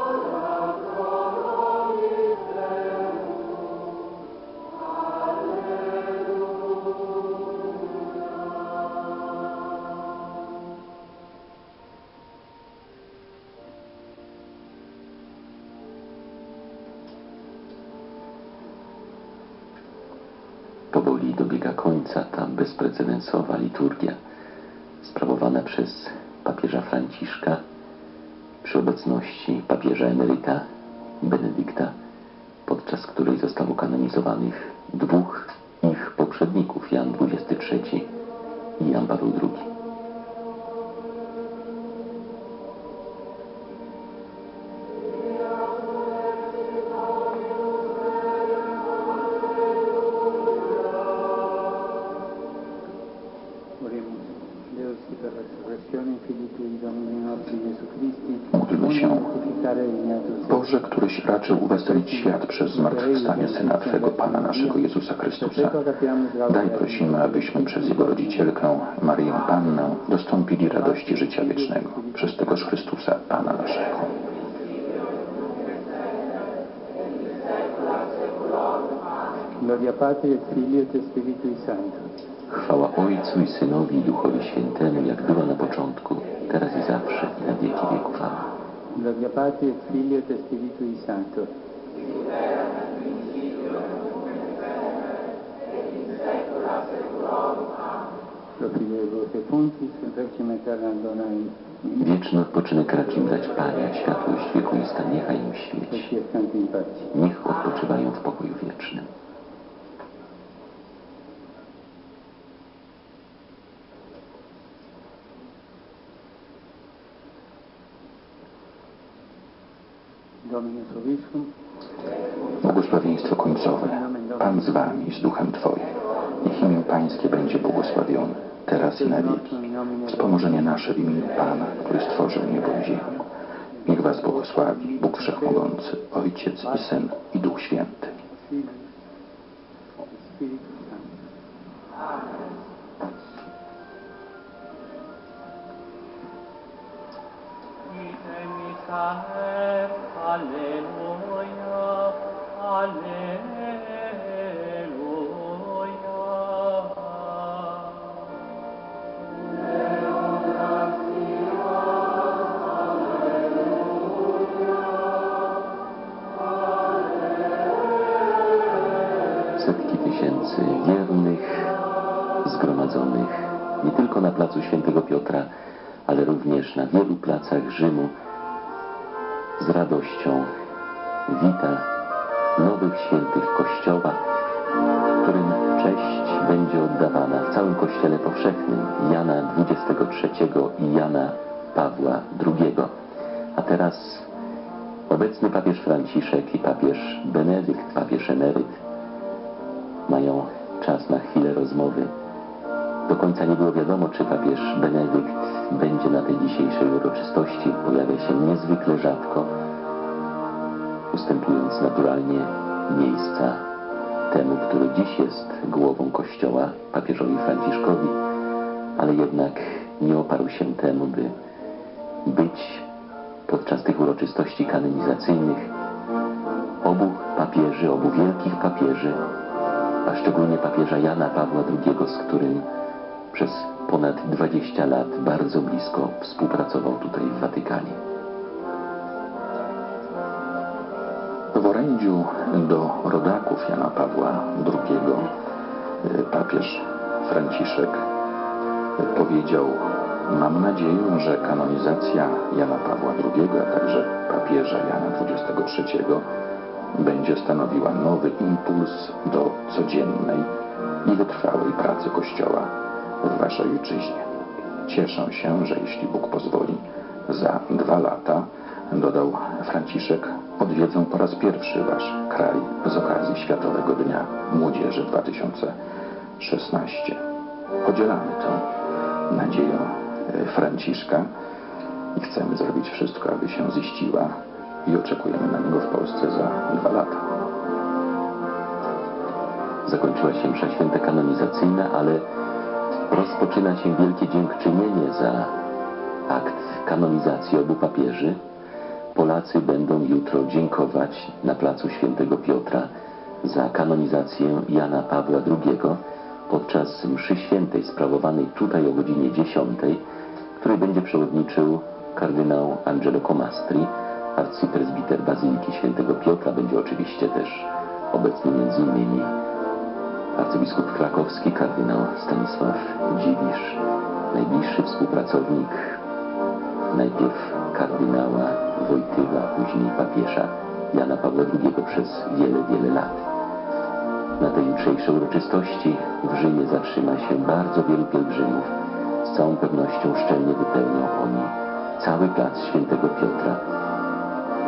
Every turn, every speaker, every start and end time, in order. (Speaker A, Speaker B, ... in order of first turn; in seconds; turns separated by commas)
Speaker A: 20.9-24.2, Speaker A: 25.0-27.6, Speaker A: 28.6-30.6, Speaker A: 31.2-31.9, Speaker A: 32.6-38.1, Speaker A: 38.8-39.7, Speaker B: 53.8-60.7, Speaker C: 58.5-59.3, Speaker C: 60.5-65.8, Speaker B: 61.5-64.8, Speaker B: 65.4-68.5, Speaker C: 66.4-74.1, Speaker B: 70.7-72.7, Speaker B: 79.6-82.1, Speaker A: 82.5-88.5, Speaker B: 88.9-91.5, Speaker B: 98.6-101.8, Speaker A: 101.9-106.1, Speaker B: 105.9-107.1, Speaker A: 107.1-109.1, Speaker B: 120.4-121.5, Speaker C: 122.6-133.2, Speaker B: 123.8-125.0, Speaker B: 128.7-130.8, Speaker B: 133.8-135.7, Speaker C: 133.8-138.1, Speaker B: 136.6-137.0, Speaker B: 138.3-138.8, Speaker B: 140.1-141.1, Speaker A: 169.6-171.7, Speaker A: 172.4-175.5, Speaker A: 176.1-178.1, Speaker A: 179.6-180.5, Speaker A: 181.3-181.8, Speaker A: 182.6-184.2, Speaker A: 185.2-192.9, Speaker A: 193.5-194.3, Speaker A: 195.1-198.8, Speaker A: 200.1-202.1, Speaker A: 203.1-209.5, Speaker A: 211.1-213.6, Speaker A: 214.3-218.2, Speaker A: 219.0-221.3, Speaker A: 222.2-222.8, Speaker A: 223.5-225.7, Speaker A: 226.8-229.2, Speaker A: 230.0-232.6, Speaker A: 233.3-238.0, Speaker C: 241.5-245.3, Speaker C: 246.0-248.0, Speaker C: 249.0-256.2, Speaker C: 256.9-260.5, Speaker C: 261.0-262.7, Speaker C: 263.2-264.3, Speaker C: 264.9-275.7, Speaker C: 276.4-277.2, Speaker C: 277.8-278.6, Speaker C: 279.3-281.3, Speaker C: 282.1-284.3, Speaker C: 284.8-287.2, Speaker A: 289.9-292.2, Speaker A: 293.1-295.5, Speaker A: 296.3-298.4, Speaker A: 299.1-302.9, Speaker A: 303.4-310.0, Speaker A: 310.6-319.3, Speaker A: 320.3-326.0, Speaker A: 326.9-333.2, Speaker A: 334.4-338.7, Speaker A: 339.2-343.6